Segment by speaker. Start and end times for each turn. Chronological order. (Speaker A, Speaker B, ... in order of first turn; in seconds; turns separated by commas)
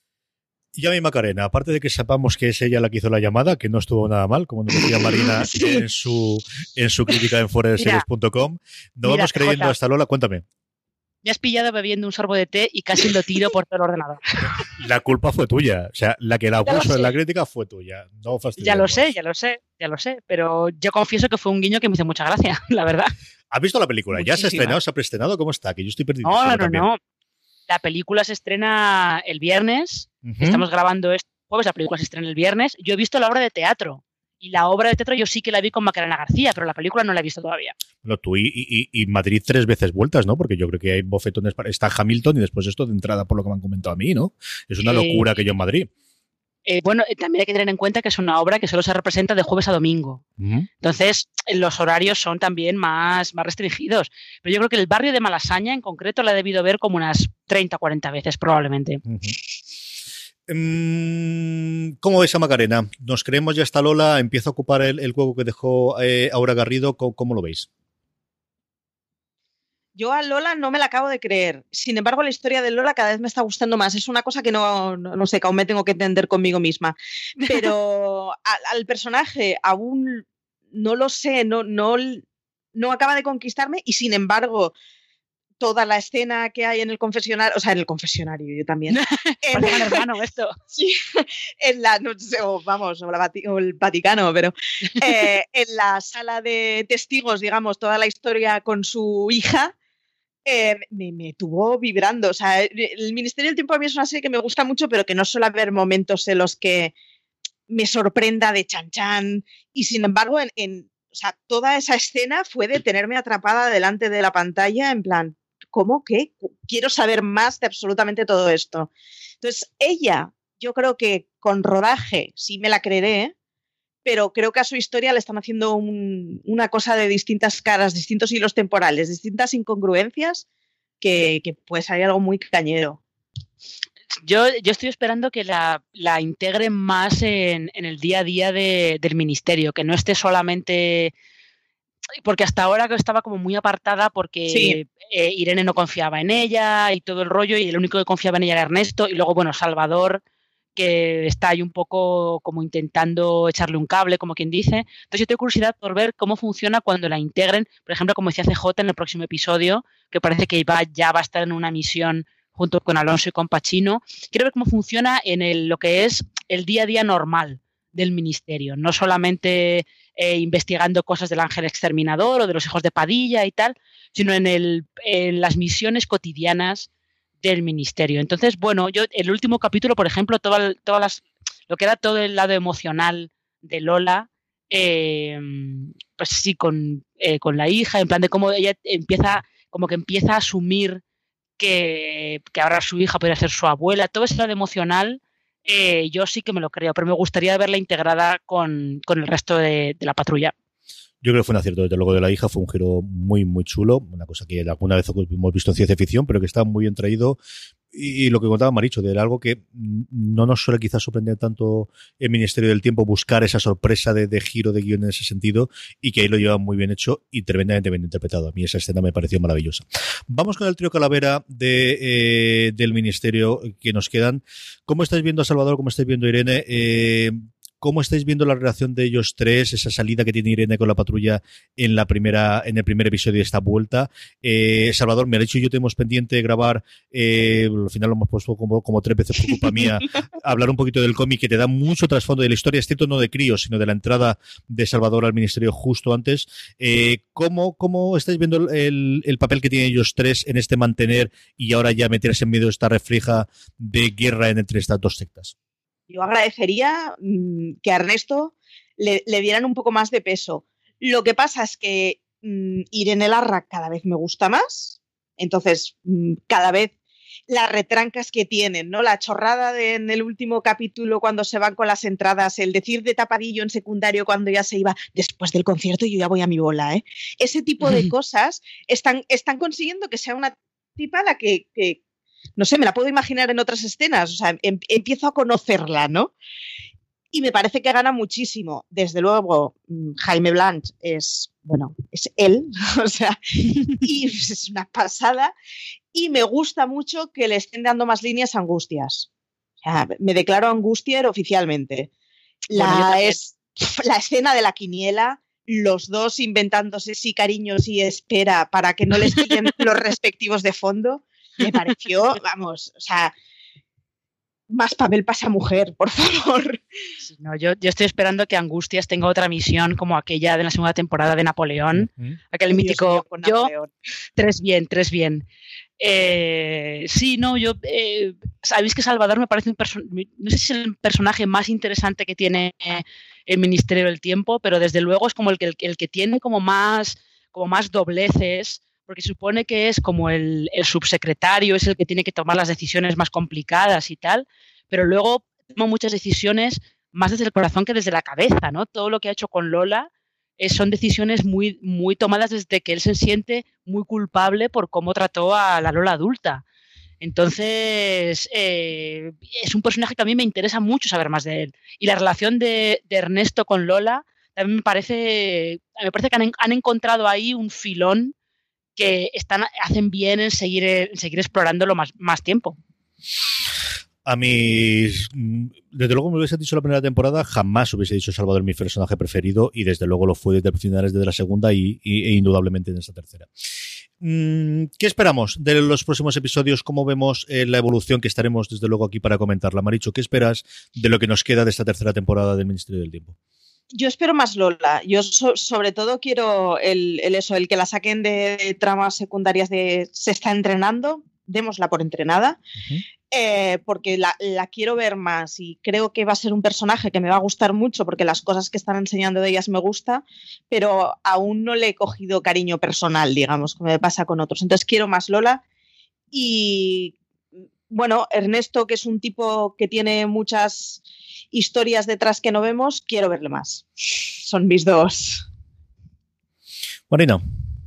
Speaker A: 0.8-10.4, Speaker B: 5.2-5.8, Speaker C: 7.8-8.1, Speaker C: 9.0-9.7, Speaker C: 11.2-14.5, Speaker A: 14.5-19.1, Speaker C: 16.6-17.1, Speaker C: 18.6-23.1, Speaker A: 23.5-26.9, Speaker C: 24.1-24.8, Speaker C: 26.2-27.0, Speaker C: 27.7-37.8, Speaker A: 30.2-30.6, Speaker A: 38.0-45.9, Speaker C: 44.8-45.2, Speaker C: 46.7-50.2, Speaker A: 50.4-50.7, Speaker C: 50.8-59.0, Speaker A: 59.1-59.4, Speaker A: 60.5-67.7, Speaker B: 70.0-82.2, Speaker B: 82.8-84.8, Speaker B: 85.6-90.0, Speaker C: 88.9-90.5, Speaker B: 90.7-99.8, Speaker B: 100.5-106.9, Speaker B: 107.7-118.9, Speaker B: 119.4-123.3, Speaker B: 124.0-130.4, Speaker B: 131.0-133.0, Speaker C: 134.2-141.1, Speaker C: 142.2-150.2, Speaker B: 144.5-144.8, Speaker C: 150.8-176.9, Speaker C: 177.4-191.0, Speaker C: 191.6-200.5, Speaker A: 201.2-207.4, Speaker A: 207.9-255.5, Speaker B: 256.1-266.9, Speaker B: 267.5-282.0, Speaker C: 277.8-278.1, Speaker B: 282.6-286.3, Speaker B: 287.3-295.5, Speaker B: 296.1-299.3, Speaker B: 299.8-302.1, Speaker B: 302.7-313.3, Speaker C: 302.7-303.4, Speaker B: 314.7-316.8, Speaker C: 317.2-323.7, Speaker A: 321.9-322.4, Speaker B: 322.7-323.9, Speaker C: 324.4-325.4, Speaker C: 326.0-356.6, Speaker C: 357.2-368.3, Speaker C: 369.0-372.8, Speaker A: 374.2-383.5, Speaker A: 384.2-393.4, Speaker B: 393.9-402.6, Speaker B: 403.3-415.6, Speaker B: 416.3-417.2, Speaker B: 417.9-425.4, Speaker A: 427.1-427.4